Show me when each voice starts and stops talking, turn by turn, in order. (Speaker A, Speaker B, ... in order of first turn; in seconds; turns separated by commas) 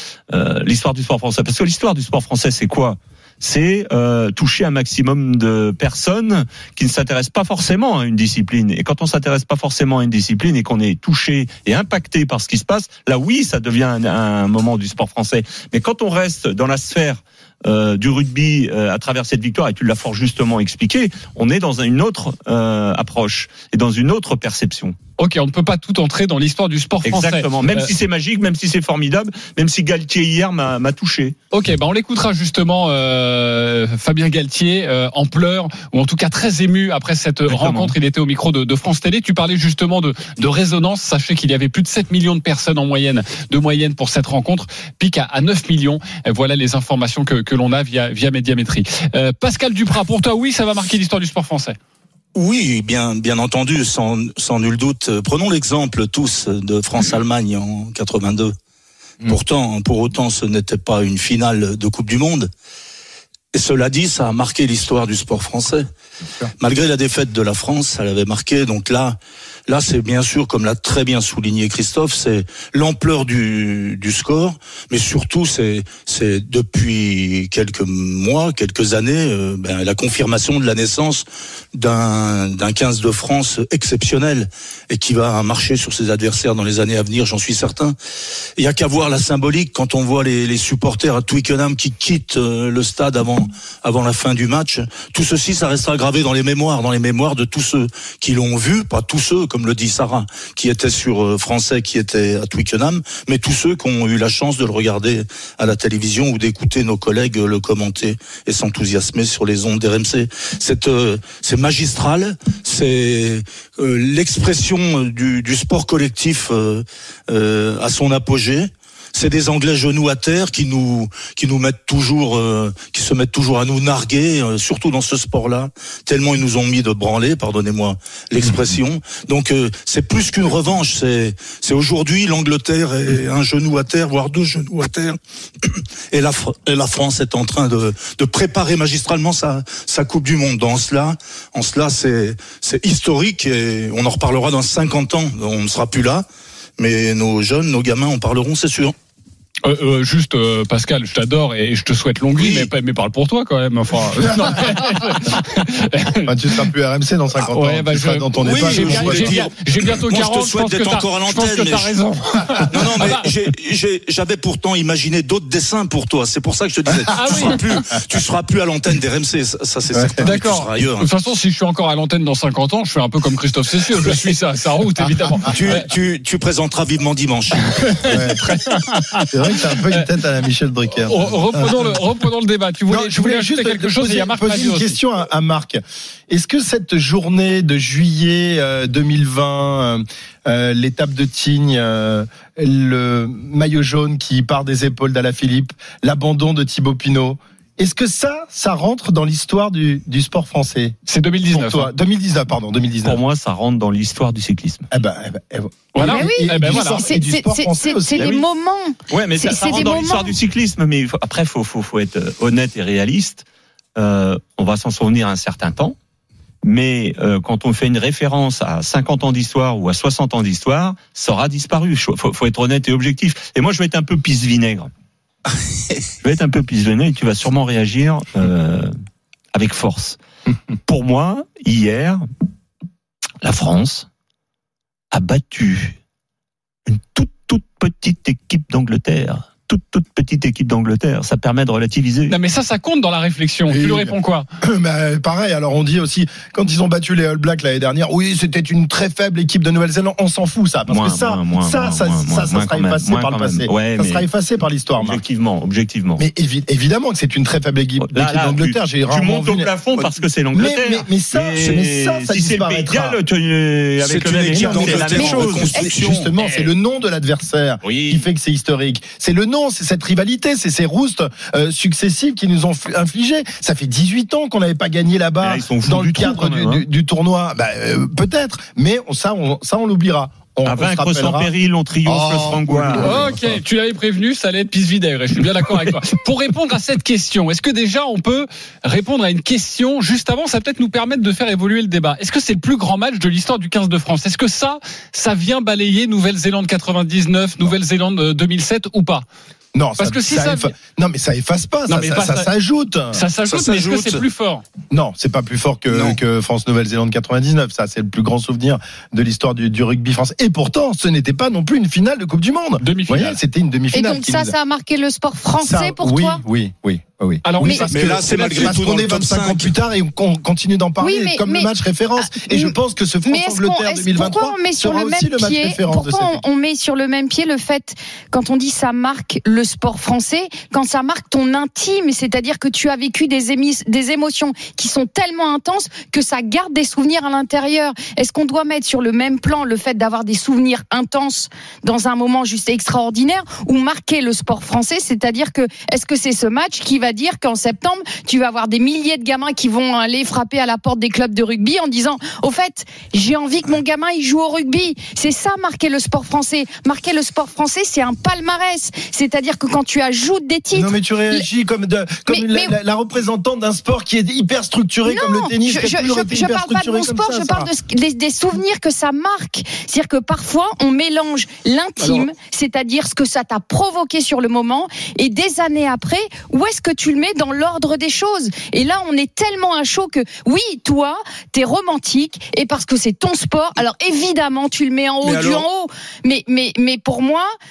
Speaker A: 0.3-25.0, Speaker B: 25.2-27.9, Speaker A: 27.1-31.4, Speaker B: 31.5-51.8, Speaker A: 37.5-37.9, Speaker C: 52.4-58.5, Speaker C: 59.3-62.5, Speaker C: 63.5-65.8, Speaker D: 66.2-66.5, Speaker C: 66.6-88.0, Speaker C: 88.6-146.3, Speaker C: 146.8-148.9, Speaker B: 149.6-156.7, Speaker C: 152.4-152.7, Speaker D: 156.3-159.5, Speaker B: 157.4-163.3, Speaker C: 158.4-161.9, Speaker C: 162.7-171.1, Speaker D: 166.9-167.3, Speaker B: 167.1-167.6, Speaker D: 169.9-170.3, Speaker B: 170.2-175.9, Speaker C: 175.5-178.2, Speaker B: 177.6-180.1, Speaker D: 178.1-178.4, Speaker D: 179.3-182.0, Speaker B: 181.1-185.0, Speaker D: 182.9-200.9, Speaker B: 201.1-201.9, Speaker D: 201.5-203.2, Speaker A: 203.0-204.8, Speaker D: 204.9-208.4, Speaker B: 205.9-207.1, Speaker E: 206.0-210.3, Speaker A: 208.2-208.4, Speaker A: 209.1-213.4, Speaker A: 214.0-216.0, Speaker A: 216.6-224.9, Speaker A: 226.2-228.9, Speaker A: 229.5-230.2, Speaker A: 230.9-232.2, Speaker A: 233.4-234.1, Speaker A: 235.1-236.0, Speaker A: 236.9-242.3, Speaker B: 242.3-244.5, Speaker D: 243.7-255.2, Speaker A: 250.9-254.3, Speaker A: 255.0-256.2, Speaker D: 256.2-263.2, Speaker A: 258.0-266.7, Speaker C: 264.0-266.3, Speaker D: 264.5-281.5, Speaker E: 265.1-265.9, Speaker A: 267.8-268.3, Speaker A: 275.4-276.9, Speaker A: 280.6-283.4, Speaker D: 282.0-283.3, Speaker B: 283.0-299.2, Speaker D: 299.8-303.2, Speaker B: 300.0-300.7, Speaker B: 301.9-302.5, Speaker B: 303.1-304.6, Speaker C: 303.5-304.2, Speaker D: 304.9-314.6, Speaker B: 312.8-313.4, Speaker E: 313.9-316.4, Speaker D: 315.6-326.4, Speaker B: 317.4-317.9, Speaker E: 317.6-317.9, Speaker C: 317.9-319.7, Speaker E: 321.0-361.5, Speaker D: 360.7-367.7, Speaker E: 362.3-362.8, Speaker E: 365.1-387.5, Speaker D: 372.0-372.3, Speaker D: 385.2-385.6